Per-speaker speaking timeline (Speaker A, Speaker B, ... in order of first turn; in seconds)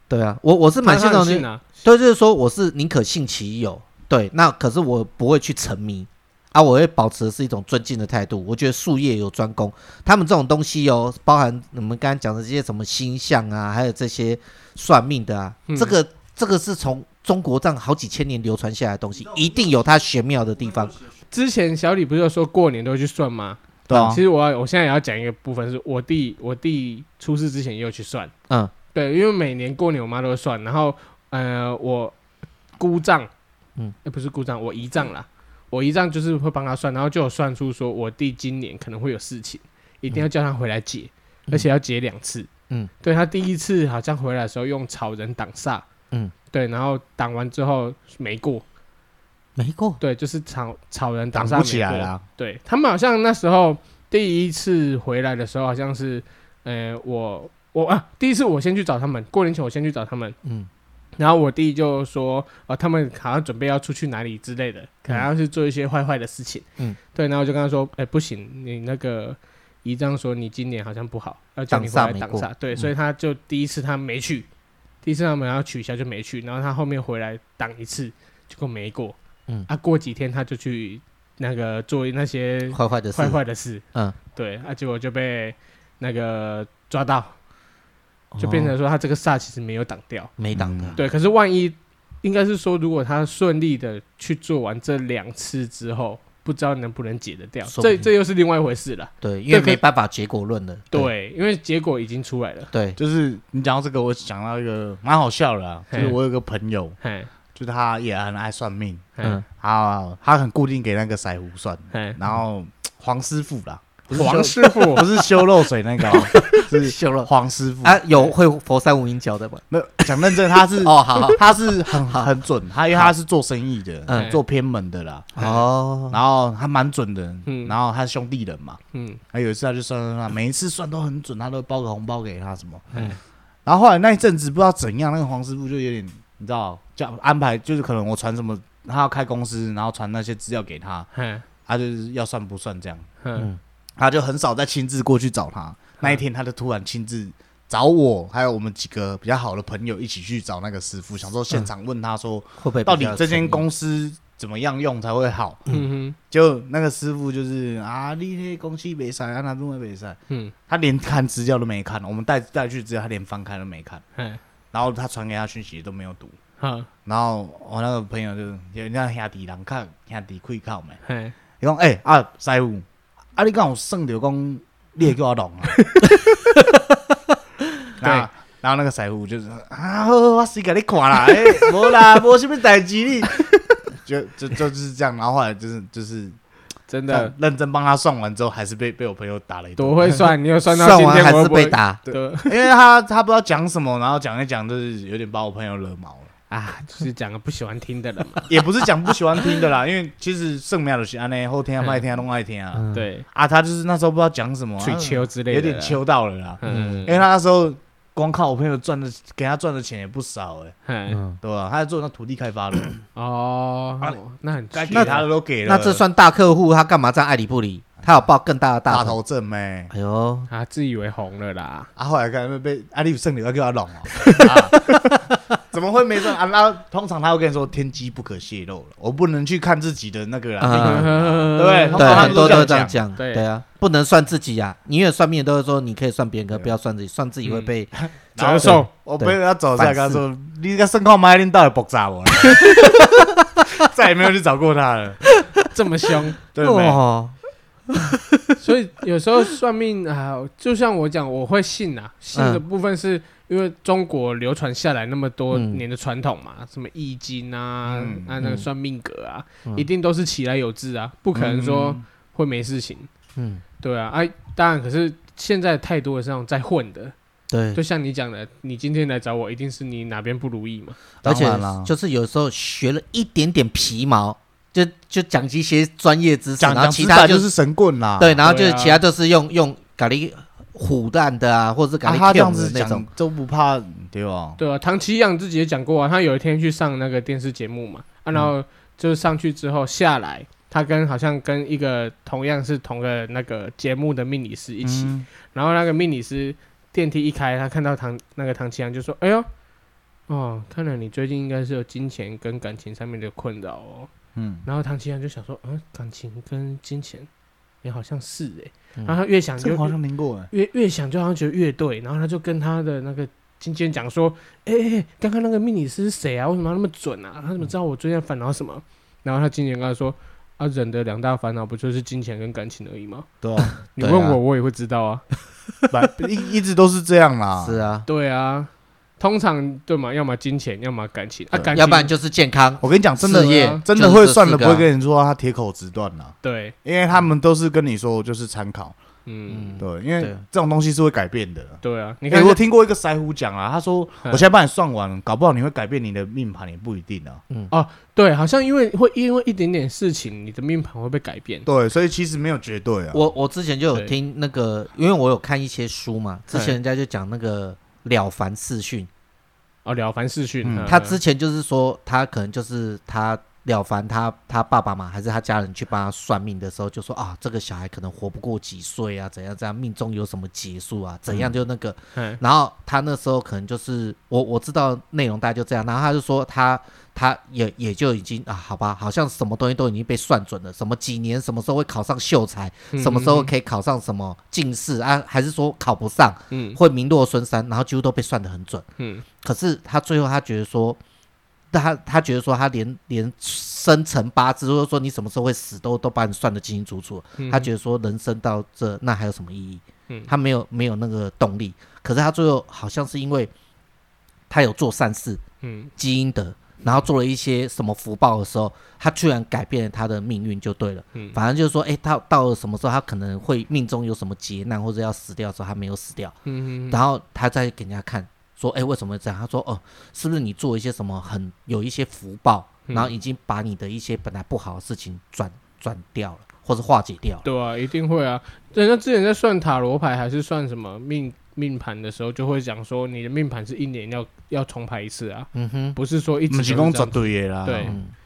Speaker A: 0.1-21.0, 49.6-50.0, 71.7-72.9, 82.7-83.4, 88.3-88.7, 90.4-91.0, 97.7-98.1, 99.2-101.1, 102.7-103.0, 114.1-115.5, 116.1-117.3, 117.8-122.3, 124.1-124.3, 125.4-126.2, 152.6-153.6, 190.7-192.0, 202.8-203.0, 206.6-207.1, 211.1-211.4, 214.9-219.2, 219.9-220.5, 230.6-237.9, 238.6-240.2, 242.4-243.7, 246.6-247.3, 247.9-248.5, 252.3-252.6, 255.5-255.8, 258.4-258.7, 263.4-263.6, 267.5-267.8, 271.2-277.5, 278.2-283.1, 323.7-324.4, 327.6-328.1, 331.7-334.9, 339.5-340.4, 353.1-359.1, 360.9-388.9, 389.4-391.0, 391.7-403.5, 404.5-405.4, 406.0-416.4, 416.9-427.4, 435.5-436.0, 437.8-438.1
Speaker B: 0.8-1.7, 15.7-15.9, 21.3-28.3, 28.9-32.2, 32.8-33.3, 34.0-42.5, 43.0-45.9, 46.5-48.6, 50.0-60.4, 61.2-74.5, 75.0-79.2, 79.7-83.8, 84.3-87.3, 88.4-90.3, 91.0-99.8, 100.9-102.7, 105.9-106.2, 107.0-107.3, 111.9-112.2, 114.1-115.1, 124.1-124.4, 127.5-127.8, 128.9-129.2, 141.1-141.4, 143.2-143.5, 155.7-156.2, 164.2-164.4, 166.6-166.9, 171.1-171.4, 175.8-176.1, 178.0-178.3, 186.9-187.3, 189.8-192.6, 196.5-198.5, 202.9-203.3, 204.8-206.0, 206.6-207.2, 210.9-211.2, 213.2-215.2, 220.5-221.9, 230.7-233.5, 237.4-237.7, 238.4-238.9, 245.7-246.4, 248.6-263.1, 263.8-267.1, 267.8-271.0, 278.4-279.0, 284.6-299.5, 300.3-304.1, 304.6-307.3, 307.8-309.9, 310.5-323.3, 323.9-325.2, 328.1-332.1, 333.4-333.8, 336.4-336.8, 339.3-339.8, 341.8-342.6, 347.7-351.7, 356.5-356.8, 359.9-361.2, 372.1-372.4, 382.9-383.5, 386.5-386.8, 389.0-389.2, 397.4-397.7, 405.6-405.9, 416.5-417.0, 422.9-423.1, 427.4-438.0
Speaker C: 23.9-24.2, 51.3-52.2, 90.5-91.0, 103.0-107.0, 107.5-118.0, 119.7-125.4, 126.1-128.8, 129.3-133.0, 133.7-141.1, 141.7-143.1, 144.0-155.7, 156.3-164.0, 164.7-166.4, 167.1-171.0, 171.6-175.8, 178.0-183.4, 184.0-186.4, 187.1-190.2, 192.1-196.3, 198.5-210.8, 211.4-213.0, 214.7-216.0, 218.9-219.9, 222.0-233.0, 238.3-245.2, 246.6-247.0, 257.9-258.3, 261.3-262.0, 271.2-271.9, 276.6-278.4, 282.0-284.6, 294.8-295.3, 304.4-304.6, 309.6-310.5, 323.4-323.7, 325.9-327.8, 332.8-339.0, 339.8-347.4, 351.7-353.2, 360.6-361.0, 436.5-438.0